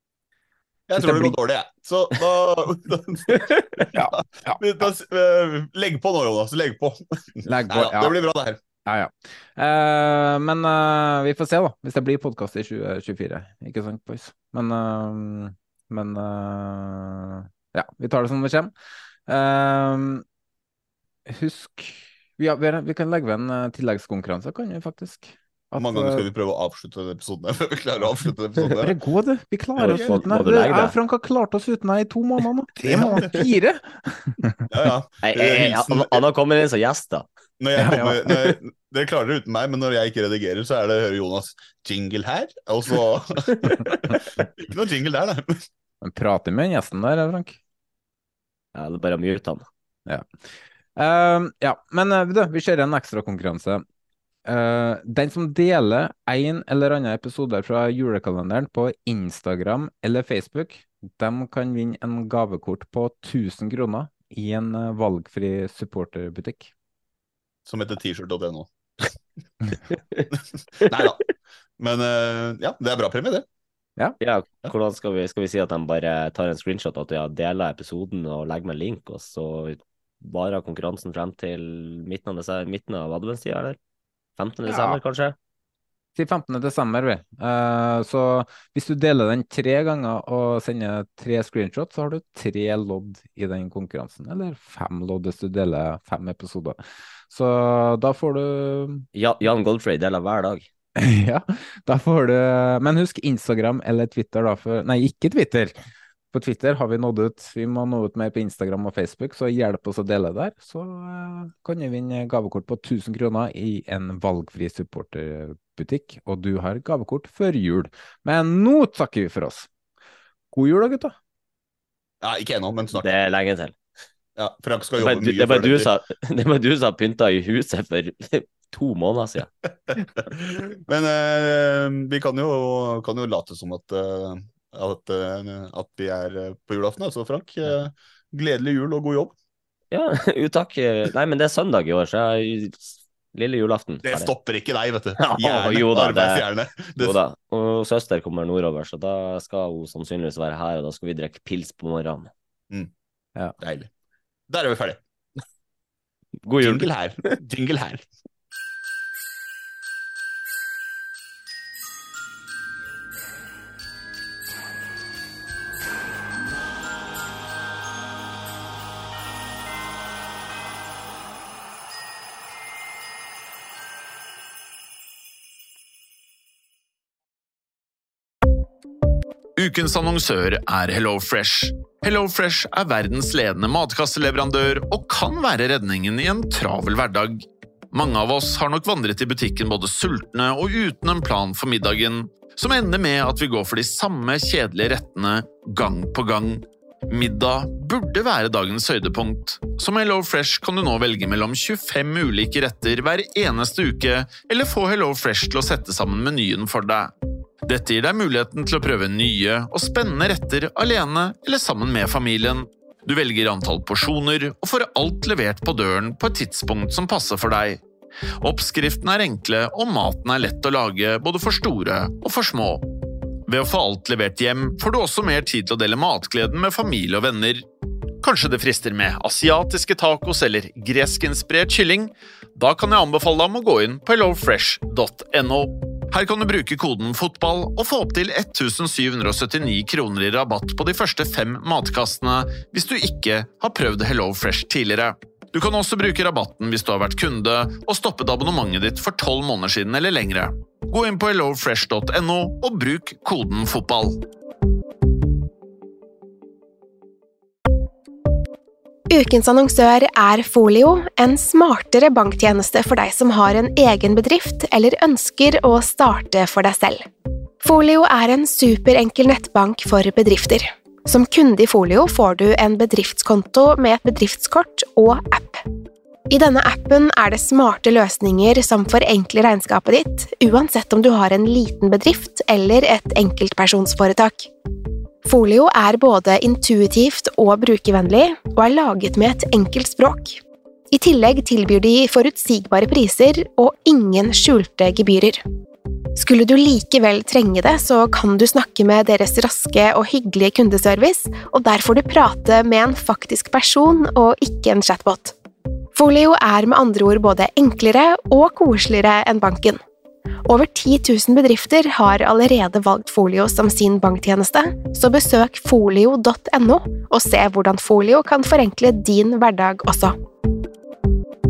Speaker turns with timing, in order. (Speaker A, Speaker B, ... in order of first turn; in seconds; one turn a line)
Speaker A: 0.9-3.8
Speaker B: 1.0-1.4
Speaker B: 3.9-4.9
Speaker A: 4.6-8.6
Speaker B: 7.4-8.2
Speaker B: 8.8-18.7
Speaker B: 19.3-20.2
Speaker B: 21.3-26.2
Speaker A: 25.7-28.9
Speaker B: 28.8-34.6
Speaker C: 29.8-30.9
Speaker A: 29.8-30.2
Speaker A: 32.8-33.3
Speaker A: 34.7-36.2
Speaker C: 35.2-37.3
Speaker A: 37.6-45.6
Speaker B: 37.8-38.2
Speaker B: 46.0-47.6
Speaker C: 48.7-49.6
Speaker B: 51.0-53.8
Speaker B: 54.5-66.7
Speaker A: 67.7-68.7
Speaker C: 69.9-70.2
Speaker A: 70.8-73.4
Speaker C: 74.2-83.8
Speaker C: 84.4-85.3
Speaker B: 84.7-85.0
Speaker B: 86.1-96.8
Speaker B: 97.3-99.0
Speaker C: 99.1-100.7
Speaker B: 101.0-105.7
Speaker B: 106.3-119.7
Speaker B: 120.5-121.1
Speaker A: 122.2-123.0
Speaker C: 122.9-123.7
Speaker A: 124.4-125.9
Speaker C: 125.0-129.5
Speaker A: 129.9-139.3
Speaker C: 139.9-144.3
Speaker A: 144.0-147.2
Speaker C: 145.2-146.5
Speaker C: 147.0-152.3
Speaker A: 153.6-153.9
Speaker A: 154.5-155.0
Speaker C: 156.4-157.3
Speaker A: 156.6-158.1
Speaker D: 179.6-207.1
Speaker D: 207.6-217.8
Speaker D: 218.4-222.8
Speaker D: 223.5-227.7
Speaker D: 228.2-254.2
Speaker E: 259.1-267.0
Speaker E: 267.6-275.6
Speaker E: 276.3-284.5
Speaker E: 285.2-290.4
Speaker E: 290.9-295.4
Speaker E: 296.1-305.3
Speaker E: 305.9-309.8
Speaker E: 310.5-320.1